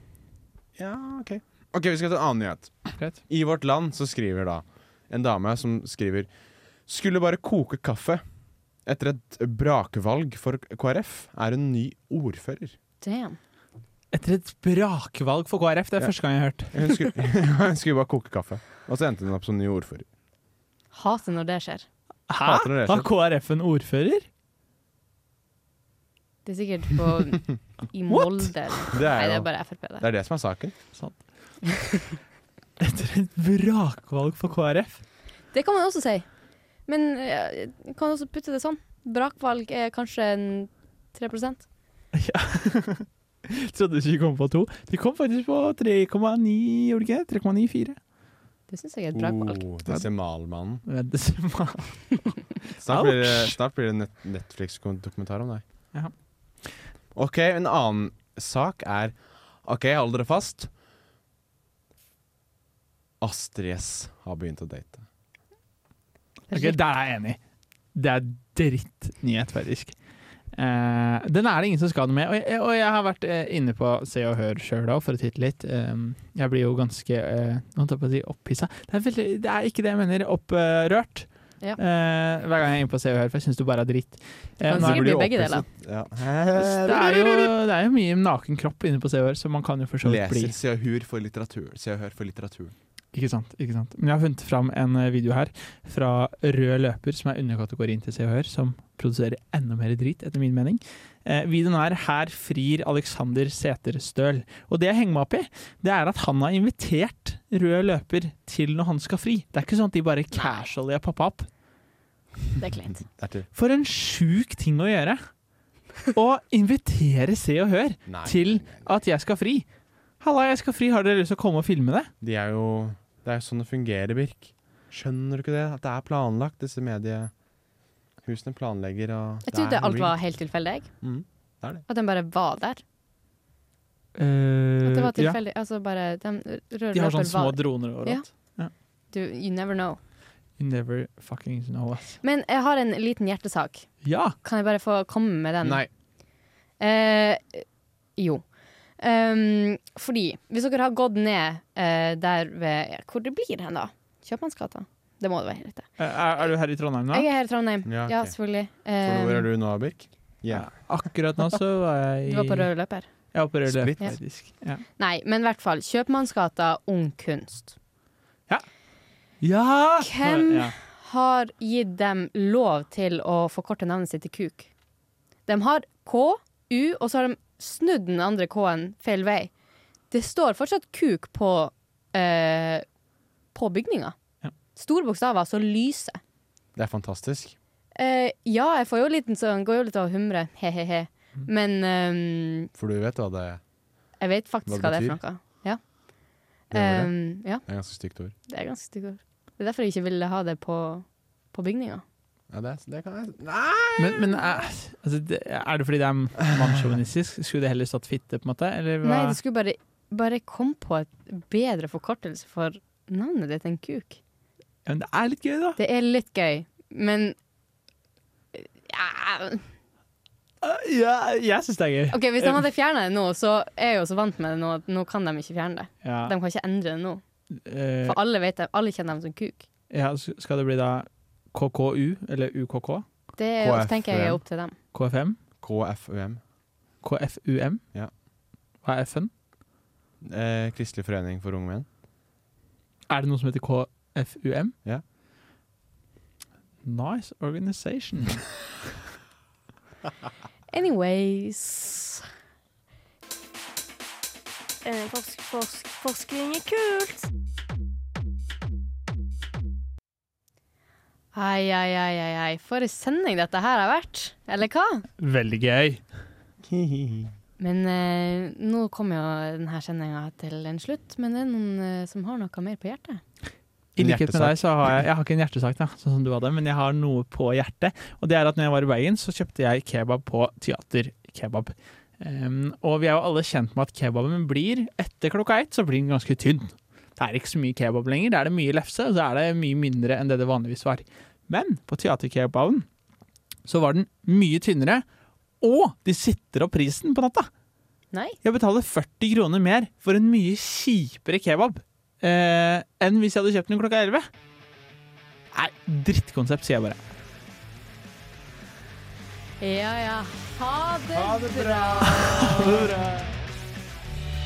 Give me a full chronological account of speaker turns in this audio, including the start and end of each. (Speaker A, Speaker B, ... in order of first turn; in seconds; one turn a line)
Speaker A: 0.8-6.3
Speaker A: 6.8-8.2
Speaker A: 8.8-12.7
Speaker B: 13.0-13.4
Speaker C: 14.1-17.1
Speaker A: 16.7-20.1
Speaker B: 20.9-21.9
Speaker C: 22.3-24.3
Speaker A: 22.4-23.1
Speaker B: 26.4-30.0
Speaker C: 28.1-28.9
Speaker A: 28.9-30.7
Speaker C: 30.9-32.1
Speaker C: 32.8-35.0
Speaker B: 35.5-36.3
Speaker B: 36.9-41.6
Speaker C: 42.1-48.0
Speaker B: 48.7-49.7
Speaker A: 49.1-50.8
Speaker C: 50.8-53.6
Speaker A: 52.8-55.6
Speaker A: 57.1-60.7
Speaker A: 63.2-65.0
Speaker B: 66.5-66.8
Speaker C: 66.5-67.4
Speaker C: 67.9-69.9
Speaker C: 70.5-85.1
Speaker B: 84.6-85.7
Speaker A: 84.7-87.5
Speaker C: 86.6-90.5
Speaker A: 90.0-92.7
Speaker C: 93.1-111.5
Speaker B: 112.6-113.0
Speaker A: 113.2-113.5
Speaker C: 113.5-115.2
Speaker C: 116.1-119.7
Speaker A: 118.1-118.9
Speaker C: 120.2-122.1
Speaker A: 122.2-127.3
Speaker A: 128.2-130.2
Speaker B: 129.5-130.9
Speaker A: 131.0-131.8
Speaker B: 131.9-132.8
Speaker C: 134.2-135.4
Speaker B: 134.8-138.6
Speaker C: 136.9-138.7
Speaker B: 139.1-140.0
Speaker C: 140.6-142.2
Speaker B: 142.2-145.8
Speaker C: 144.0-144.3
Speaker A: 145.6-145.9
Speaker B: 146.8-147.6
Speaker B: 148.2-148.4
Speaker B: 149.0-155.9
Speaker C: 156.0-157.3
Speaker B: 157.1-159.5
Speaker A: 157.8-158.3
Speaker A: 159.0-160.7
Speaker C: 160.5-162.7
Speaker B: 162.2-163.1
Speaker C: 163.3-164.8
Speaker A: 163.7-164.1
Speaker B: 165.0-167.7
Speaker C: 169.4-170.7
Speaker B: 170.0-174.7
Speaker B: 175.5-179.5
Speaker B: 180.1-182.8
Speaker B: 183.5-184.1
Speaker B: 184.8-186.2
Speaker A: 186.8-187.6
Speaker B: 187.9-192.7
Speaker A: 192.7-193.6
Speaker B: 194.2-195.8
Speaker A: 194.7-195.2
Speaker B: 196.7-197.7
Speaker A: 196.7-198.3
Speaker B: 198.5-202.0
Speaker A: 202.5-204.4
Speaker C: 204.0-209.4
Speaker B: 209.0-214.2
Speaker C: 214.8-215.8
Speaker B: 215.8-217.3
Speaker B: 218.5-219.6
Speaker C: 220.6-222.6
Speaker B: 222.1-227.2
Speaker C: 226.0-226.3
Speaker C: 227.6-228.2
Speaker B: 228.0-229.7
Speaker C: 229.9-233.0
Speaker B: 233.3-234.7
Speaker A: 233.6-234.4
Speaker C: 234.9-235.4
Speaker A: 235.6-236.4
Speaker C: 237.0-237.8
Speaker C: 238.8-239.3
Speaker A: 240.2-241.8
Speaker C: 243.1-244.7
Speaker C: 246.8-248.4
Speaker B: 250.7-252.3
Speaker D: 254.8-257.3
Speaker B: 261.3-265.1
Speaker C: 265.2-266.0
Speaker A: 266.6-267.3
Speaker B: 267.6-273.2
Speaker C: 273.9-292.9
Speaker A: 274.0-275.0
Speaker C: 293.6-295.0
Speaker C: 295.6-297.5
Speaker B: 298.1-298.4
Speaker C: 298.4-304.3
Speaker C: 305.5-307.0
Speaker B: 309.6-312.9
Speaker C: 312.0-313.3